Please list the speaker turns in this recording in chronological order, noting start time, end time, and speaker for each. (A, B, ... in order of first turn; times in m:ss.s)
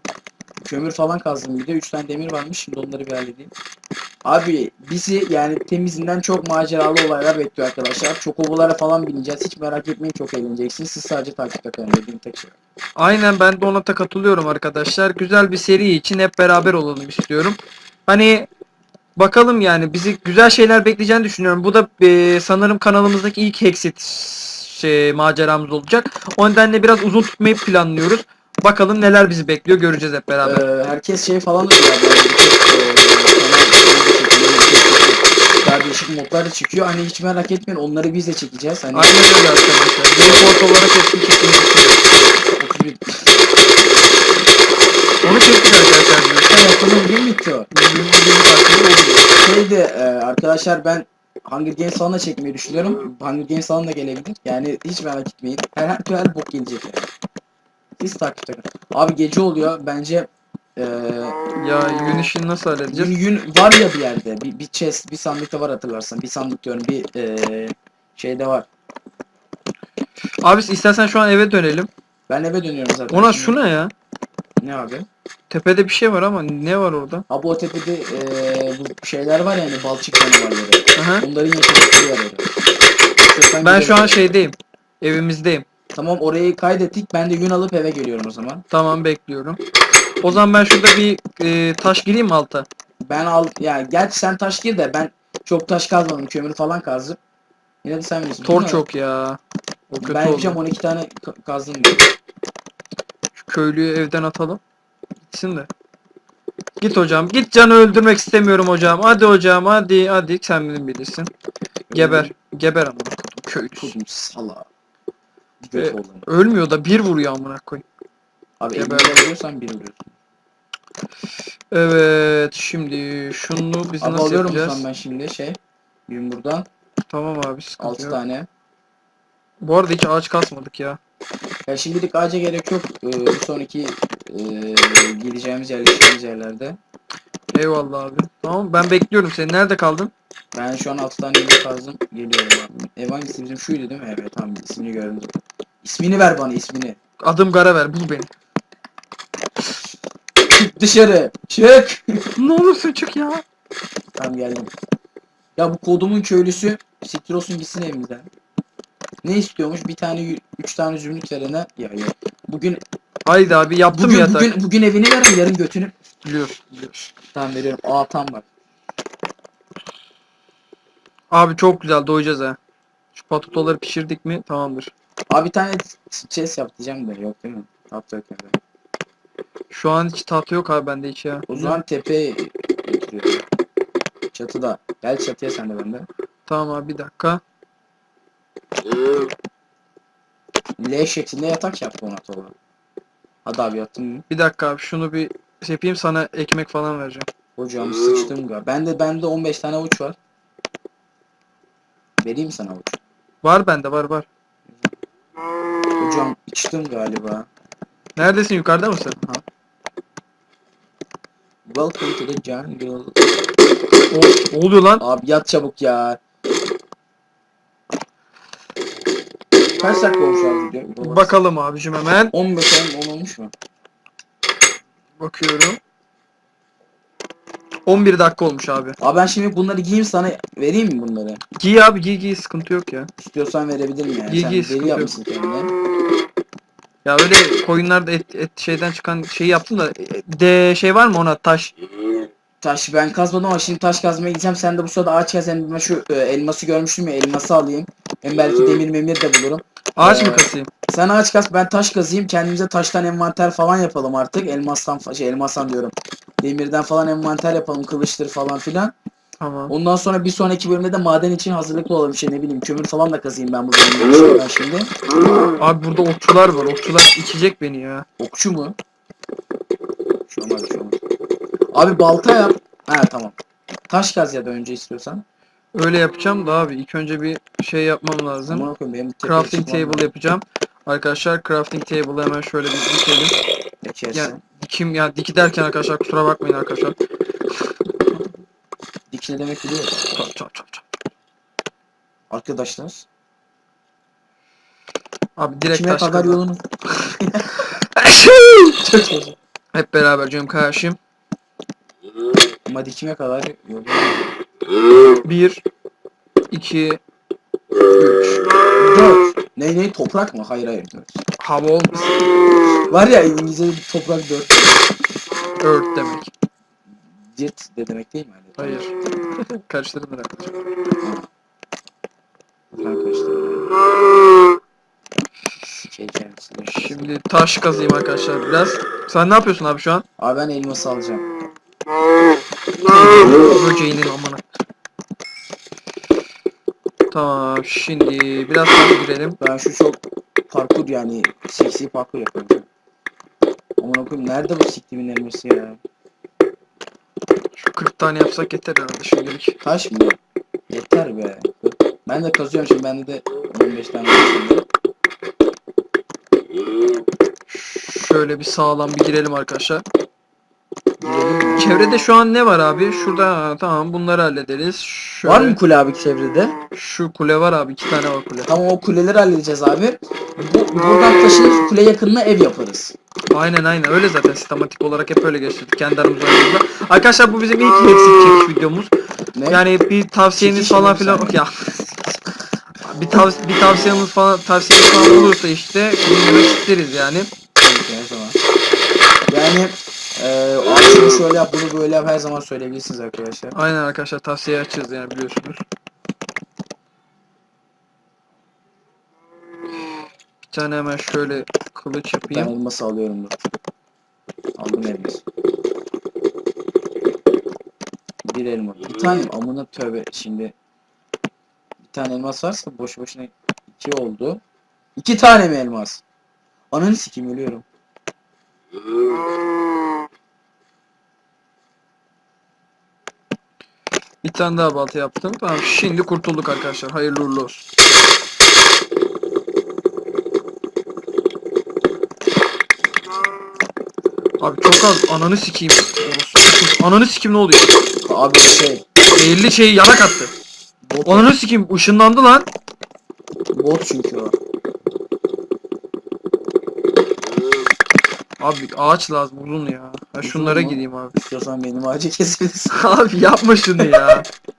0:00.6-0:03.5 A
0:04.2-0:12.5 A
0:13.0-0:18.5 B
0:19.2-0:30.6 B
0:30.4-0:39.2 A
0:38.9-0:42.2 B
0:40.1-0:40.6 A
0:42.6-0:43.3 A
0:45.2-0:46.7 B
0:46.5-0:47.7 A
0:47.7-0:49.3 B
0:49.4-0:57.1 A
0:58.0-1:01.4 A
1:01.6-1:03.1 B
1:02.9-1:08.7 A
1:10.4-1:11.9 B
1:12.3-1:13.6 A
1:13.1-1:13.9 B
1:14.6-1:15.0 A
1:15.5-1:17.2 B
1:17.3-1:22.6 A
1:20.9-1:21.2 B
1:23.2-1:24.3 A
1:23.6-1:25.6 B
1:25.9-1:28.6 A
1:28.7-1:29.6 B
1:30.2-1:32.7 B
1:33.0-1:37.2 A
1:37.8-1:38.8 A
1:38.4-1:40.6 B
1:40.0-1:42.1 A
1:43.3-1:44.6 B
1:45.3-1:45.7 B
1:46.8-1:51.3 B
1:51.9-1:52.3 A
1:51.9-1:53.9 B
1:53.7-1:54.7 A
1:55.6-1:56.2 A
1:55.8-1:57.8 B
1:58.6-2:00.1 A
1:58.7-1:59.2 B
2:01.7-2:04.8 B
2:04.0-2:06.7 A
2:07.1-2:08.2 B
2:07.8-2:08.5 A
2:09.6-2:11.0 B
2:11.6-2:16.8 A
2:17.5-2:20.1 B
2:20.5-2:27.0 A
2:27.2-2:28.3 B
2:30.5-2:32.3 A
2:32.4-2:33.4 B
2:34.2-2:34.7 A
2:35.6-2:38.3 A
2:39.2-2:42.8 A
2:43.2-2:44.5 B
2:43.9-2:45.9 A
2:46.2-2:47.1 B
2:47.3-2:48.4 A
2:51.3-2:52.6 B
2:53.1-2:54.9 B
2:55.3-2:58.6 A
2:59.7-3:01.8 B
3:01.5-3:03.4 A
3:04.3-3:06.1 A
3:06.5-3:07.4 B
3:10.8-3:12.5 A
3:13.4-3:14.2 A
3:14.3-3:17.3 B
3:17.6-3:20.2 A
3:22.2-3:23.0 A
3:23.4-3:24.3 B
3:24.7-3:25.0 A
3:26.0-3:27.5 A
3:28.2-3:29.2 B
3:31.6-3:33.3 A
3:34.1-3:35.0 B
3:35.0-3:36.2 A
3:39.8-3:41.3 A
3:41.0-3:42.3 B
3:42.3-3:43.5 A
3:45.2-3:45.8 B
3:47.8-3:49.0 B
3:49.0-3:51.4 A
3:51.6-3:53.1 B
3:53.2-3:55.7 A
3:54.3-3:55.1 B
3:57.0-4:01.7 B
4:02.6-4:18.9 A
4:10.0-4:10.7 B
4:19.4-4:19.7 B
4:19.7-4:24.9 A
4:25.6-4:28.0 B
4:28.2-4:28.8 A
4:30.3-4:31.0 A
4:31.7-4:33.4 A
4:33.9-4:35.2 A
4:35.7-4:38.7 B
4:38.5-4:40.1 A
4:39.2-4:43.3 B
4:43.8-4:44.4 A
4:44.1-4:47.0 B
4:49.1-4:50.0 A
4:50.1-4:50.8 B
4:52.3-4:53.0 A
4:55.4-4:56.4 B
4:55.7-4:57.7 A
4:57.7-4:58.8 B
4:58.8-4:59.4 A
4:59.7-5:01.0 B
5:02.7-5:04.3 A
5:05.2-5:05.6 B
5:06.5-5:07.0 B
5:08.0-5:08.4 B
5:08.8-5:11.2 A
5:11.4-5:12.2 B
5:12.9-5:14.9 A
5:15.6-5:16.3 B
5:17.3-5:18.8 A
5:18.6-5:20.6 B
5:22.7-5:23.7 A
5:25.8-5:27.1 A
5:26.7-5:30.0 B
5:30.2-5:31.3 A
5:32.8-5:34.4 B
5:37.1-5:39.4 B
5:39.4-5:42.6 A
5:43.8-5:45.8 A
5:47.6-5:49.6 B
5:49.6-5:50.2 A
5:50.7-5:54.6 A
5:57.5-5:59.8 B
6:01.0-6:01.6 A
6:01.6-6:05.6 B
6:05.2-6:06.6 A
6:06.7-6:08.5 B
6:08.5-6:12.9 A
6:13.3-6:18.9 B
6:19.3-6:19.6 A
6:19.5-6:22.2 B
6:20.4-6:21.4 A
6:22.8-6:27.3 B
6:27.6-6:28.4 A
6:29.3-6:33.6 A
6:33.5-6:35.6 B
6:40.5-6:42.5 B
6:42.3-6:43.4 A
6:44.6-6:45.2 A
6:48.2-6:50.5 A
6:51.8-6:54.4 A
6:55.0-6:56.0 A
6:56.7-6:57.6 A
7:04.2-7:07.6 B
7:14.4-7:17.7 B
7:18.0-7:18.8 A
7:19.1-7:20.3 B
7:20.8-7:21.3 A
7:21.0-7:22.5 B
7:23.5-7:24.3 A
7:28.4-7:31.1 B
7:30.2-7:32.8 A
7:32.7-7:34.2 B
7:33.8-7:34.1 A